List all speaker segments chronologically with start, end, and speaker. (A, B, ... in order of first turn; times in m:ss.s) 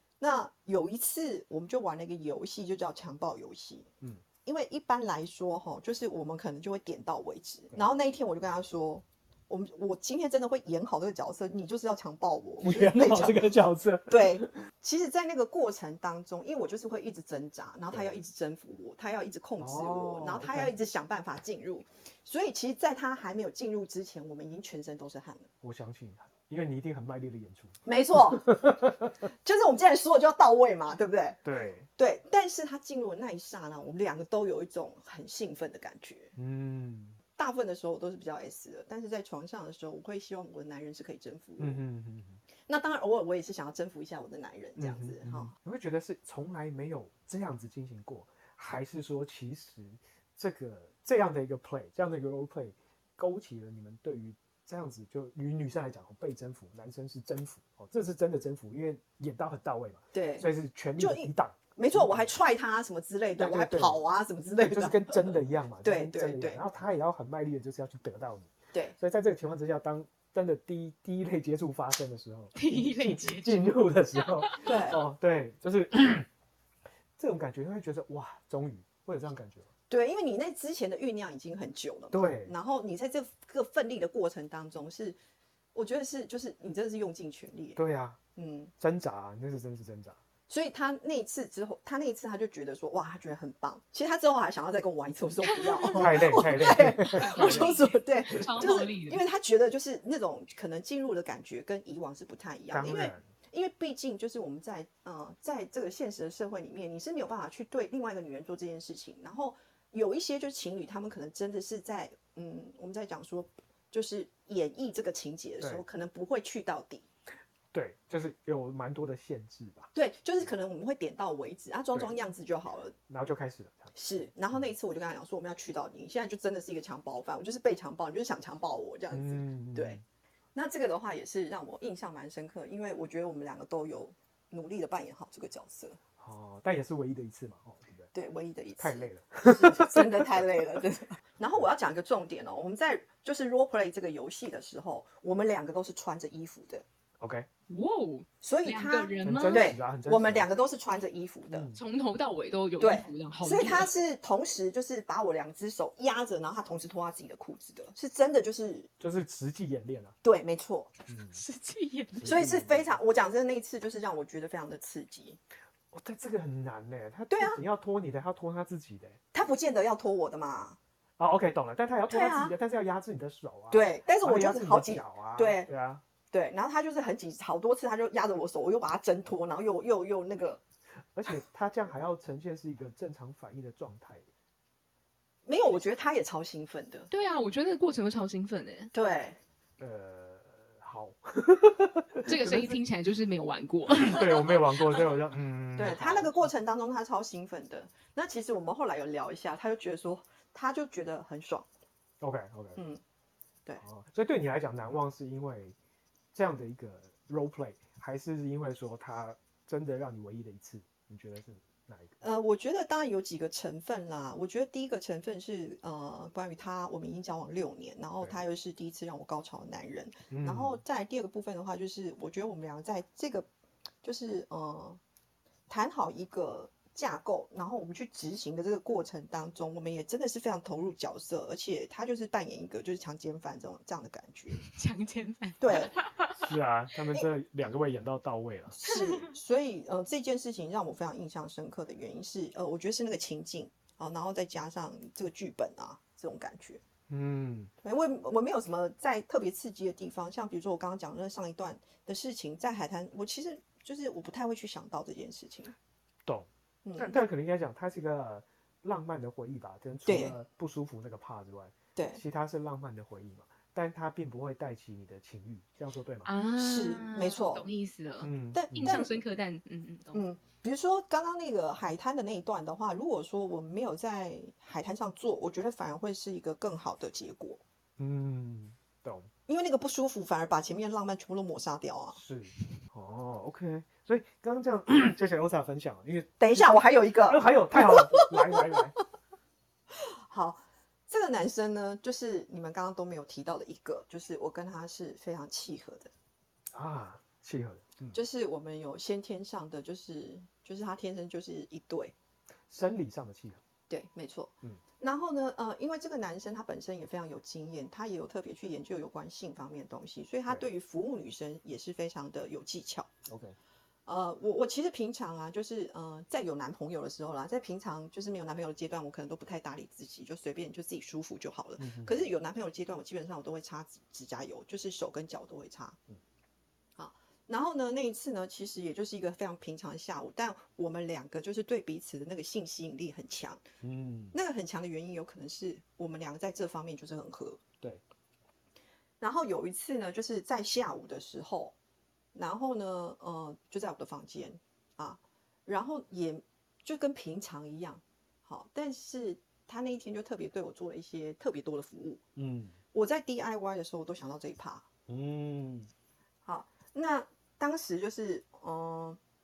0:00.2-0:03.9 A
0:04.4-0:13.6 A
0:12.6-0:14.5 B
0:14.1-0:25.5 A
0:17.9-0:18.2 B
0:19.6-0:20.7 B
0:25.6-0:29.1 B
0:27.8-0:28.4 A
0:29.4-0:31.4 A
0:31.4-0:31.9 B
0:32.0-0:36.3 A
0:36.4-0:37.2 B
0:37.4-0:41.8 A
0:41.6-0:42.4 B
0:42.7-0:45.5 A
0:44.8-1:02.3 B
1:00.1-1:00.5 A
1:01.0-1:06.6 A
1:03.4-1:04.0 B
1:04.6-1:16.3 B
1:12.6-1:14.9 C
1:14.7-1:15.0 A
1:17.2-1:19.7 B
1:19.9-1:25.2 A
1:22.1-1:22.5 B
1:25.7-1:27.8 A
1:27.8-1:28.2 B
1:28.4-1:28.7 A
1:28.8-1:30.2 B
1:30.5-1:57.1 A
1:35.5-1:36.1 C
1:36.0-1:37.8 B
1:37.2-1:39.3 C
1:38.3-1:38.8 B
1:42.7-1:43.3 B
1:57.7-1:59.9 B
1:59.9-2:02.9 A
2:03.1-2:04.3 B
2:04.0-2:10.0 A
2:09.1-2:10.0 B
2:10.6-2:16.0 A
2:16.2-2:18.1 B
2:18.1-2:26.8 A
2:18.8-2:20.4 B
2:27.2-2:27.5 B
2:27.7-2:29.8 C
2:28.4-2:31.7 A
2:29.2-2:30.5 B
2:31.5-2:31.8 B
2:31.8-2:33.9 C
2:32.8-2:38.9 A
2:39.0-2:40.2 B
2:40.2-2:40.9 A
2:41.1-2:41.4 B
2:41.3-2:42.4 C
2:42.2-2:43.0 B
2:42.2-2:45.4 A
2:45.9-2:49.2 B
2:47.3-2:47.6 A
2:49.3-2:50.8 A
2:51.2-2:56.0 B
2:52.1-2:52.6 A
2:53.7-2:55.7 A
2:56.3-3:00.6 A
3:01.1-3:04.3 B
3:05.5-3:07.1 A
3:07.1-3:08.9 C
3:08.9-3:09.4 A
3:09.8-3:12.8 B
3:12.3-3:15.0 C
3:13.9-3:16.5 B
3:15.8-3:21.7 A
3:22.2-3:22.8 B
3:22.8-3:23.0 A
3:23.8-3:25.8 B
3:26.3-3:32.2 B
3:32.2-3:43.5 A
3:40.3-3:40.8 B
3:44.0-3:45.0 A
3:45.7-3:54.6 A
3:54.5-3:56.4 C
3:55.6-3:55.9 A
3:56.4-3:58.8 B
3:58.7-4:06.8 A
3:58.9-3:59.3 C
4:07.1-4:07.7 B
4:07.8-4:15.7 A
4:16.3-4:26.3 B
4:16.8-4:17.2 A
4:20.1-4:20.4 A
4:22.0-4:22.2 A
4:26.2-4:30.2 C
4:26.6-4:27.7 A
4:28.2-4:29.0 B
4:28.5-4:29.2 A
4:30.1-4:37.6 A
4:38.0-4:39.3 B
4:39.5-4:42.2 A
4:42.1-4:49.0 B
4:46.4-4:48.6 A
4:50.0-4:56.1 A
4:56.7-4:58.2 B
4:58.1-5:02.2 A
5:02.7-5:03.6 B
5:03.9-5:13.1 A
5:13.3-5:13.6 B
5:14.1-5:26.0 A
5:21.8-5:22.2 B
5:27.0-5:33.6 A
5:33.8-5:34.4 B
5:34.3-5:37.6 A
5:39.2-5:41.8 A
5:42.3-5:52.2 A
5:52.4-5:52.8 B
5:52.9-5:54.9 A
5:55.1-5:55.9 B
5:56.4-5:59.2 A